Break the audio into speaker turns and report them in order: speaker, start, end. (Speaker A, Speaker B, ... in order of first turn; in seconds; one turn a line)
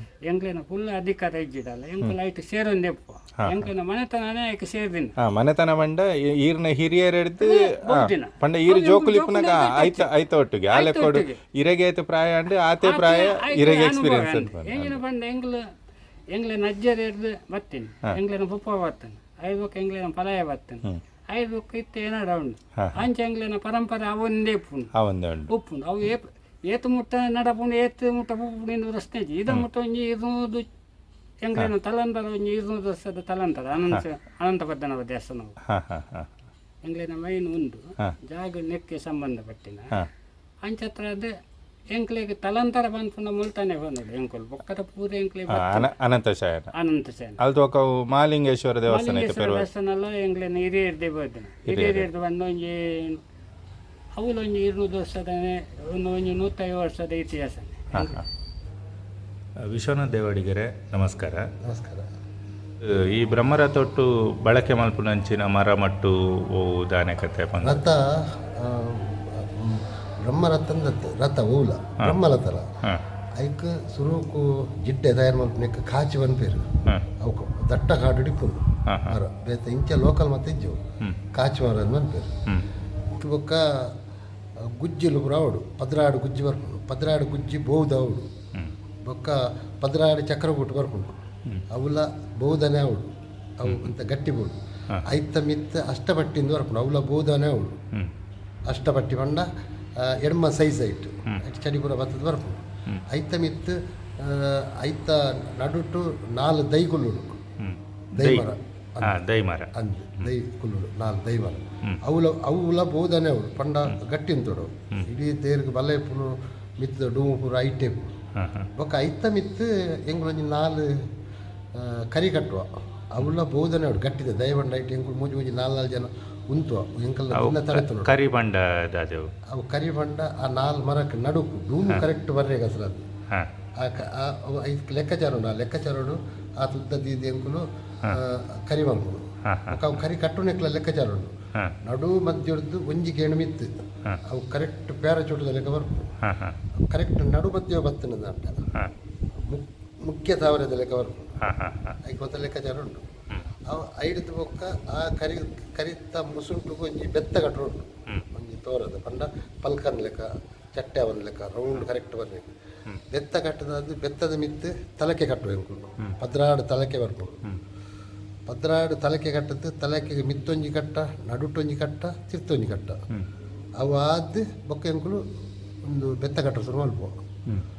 Speaker A: 0.3-5.1
Speaker B: 3.4-3.7
Speaker B: 5.2-15.0
Speaker A: 7.4-10.1
Speaker A: 10.7-11.4
Speaker A: 12.8-15.6
Speaker A: 16.3-24.9
Speaker B: 22.8-23.1
Speaker B: 25.0-25.5
Speaker A: 25.5-30.7
Speaker A: 31.4-35.5
Speaker B: 35.7-36.3
Speaker A: 36.8-39.9
Speaker A: 40.6-41.3
Speaker A: 41.9-45.9
Speaker B: 45.5-46.7
Speaker A: 46.7-47.4
Speaker B: 47.4-49.7
Speaker A: 48.9-53.2
Speaker B: 51.6-52.1
Speaker A: 54.2-58.2
Speaker B: 57.9-58.2
Speaker B: 59.7-61.5
Speaker C: 61.6-62.1
Speaker B: 62.8-67.8
Speaker C: 67.6-72.7
Speaker C: 73.4-76.7
Speaker C: 77.2-80.8
Speaker B: 78.9-79.2
Speaker C: 81.3-82.4
Speaker C: 83.2-83.9
Speaker C: 84.6-88.3
Speaker C: 89.1-91.1
Speaker C: 91.7-97.8
Speaker B: 93.7-93.9
Speaker C: 98.7-99.5
Speaker C: 100.0-107.4
Speaker B: 107.6-108.5
Speaker C: 108.2-109.2
Speaker B: 109.0-110.3
Speaker C: 109.7-118.1
Speaker B: 118.4-118.7
Speaker C: 118.8-120.9
Speaker C: 121.8-128.2
Speaker B: 127.3-129.3
Speaker C: 129.5-133.1
Speaker C: 133.8-141.3
Speaker B: 139.4-140.0
Speaker C: 141.8-143.7
Speaker C: 144.3-146.1
Speaker B: 146.2-146.6
Speaker C: 146.9-148.6
Speaker C: 149.5-151.3
Speaker B: 151.4-152.0
Speaker C: 152.0-153.1
Speaker C: 153.7-162.5
Speaker C: 163.1-167.4
Speaker C: 168.5-173.0
Speaker C: 173.8-175.2
Speaker C: 175.8-177.1